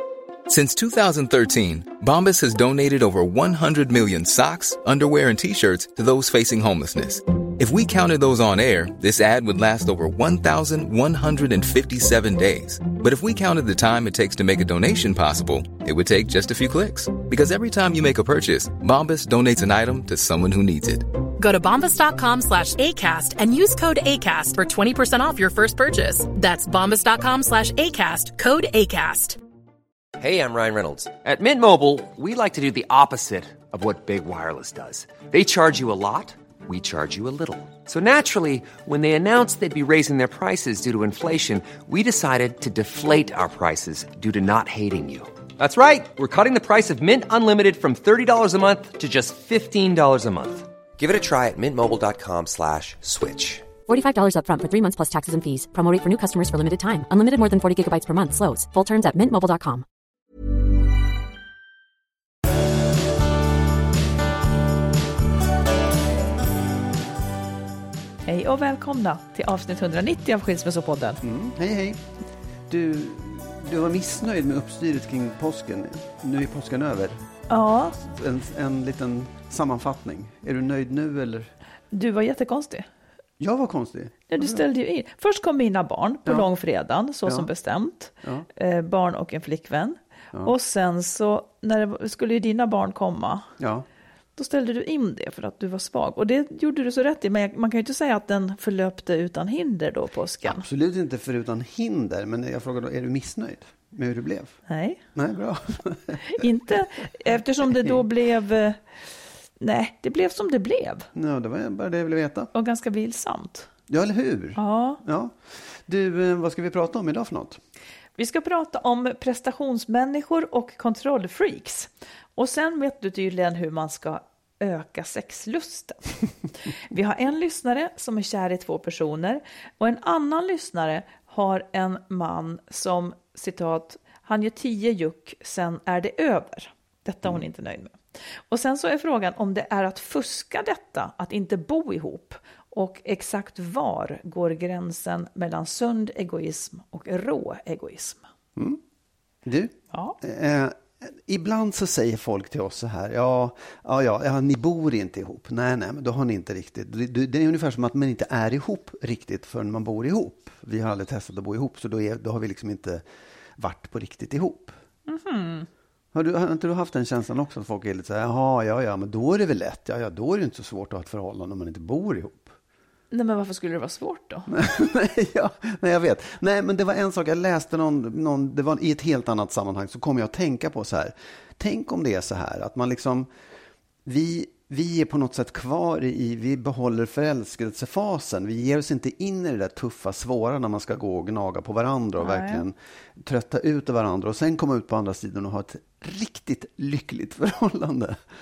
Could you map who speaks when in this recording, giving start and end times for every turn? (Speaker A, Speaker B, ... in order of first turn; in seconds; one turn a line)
Speaker A: 0.5-21.1
Speaker B: 21.4-29.4
Speaker C: 30.2-53.7
Speaker D: 53.9-59.9
Speaker E: 68.3-71.2
Speaker F: 71.2-72.0
Speaker F: 72.7-77.2
Speaker E: 77.5-78.0
Speaker F: 78.0-81.5
Speaker E: 81.9-82.9
Speaker F: 83.4-84.7
Speaker E: 84.3-93.5
Speaker F: 93.6-93.9
Speaker E: 94.4-100.7
Speaker F: 100.4-104.6
Speaker E: 104.7-105.0
Speaker F: 105.2-106.5
Speaker E: 106.3-108.8
Speaker F: 107.7-108.0
Speaker E: 109.6-111.1
Speaker F: 111.2-112.5
Speaker E: 112.5-113.7
Speaker F: 113.9-117.6
Speaker E: 114.6-115.0
Speaker E: 118.2-126.1
Speaker E: 126.9-138.0
Speaker E: 138.5-148.2
Speaker F: 148.6-148.8
Speaker F: 149.4-163.0
Speaker E: 149.9-150.2
Speaker F: 163.6-164.7
Speaker E: 165.1-165.7
Speaker F: 166.1-172.6
Speaker E: 173.1-174.5
Speaker F: 174.5-183.3
Speaker F: 184.1-198.2
Speaker E: 192.2-192.6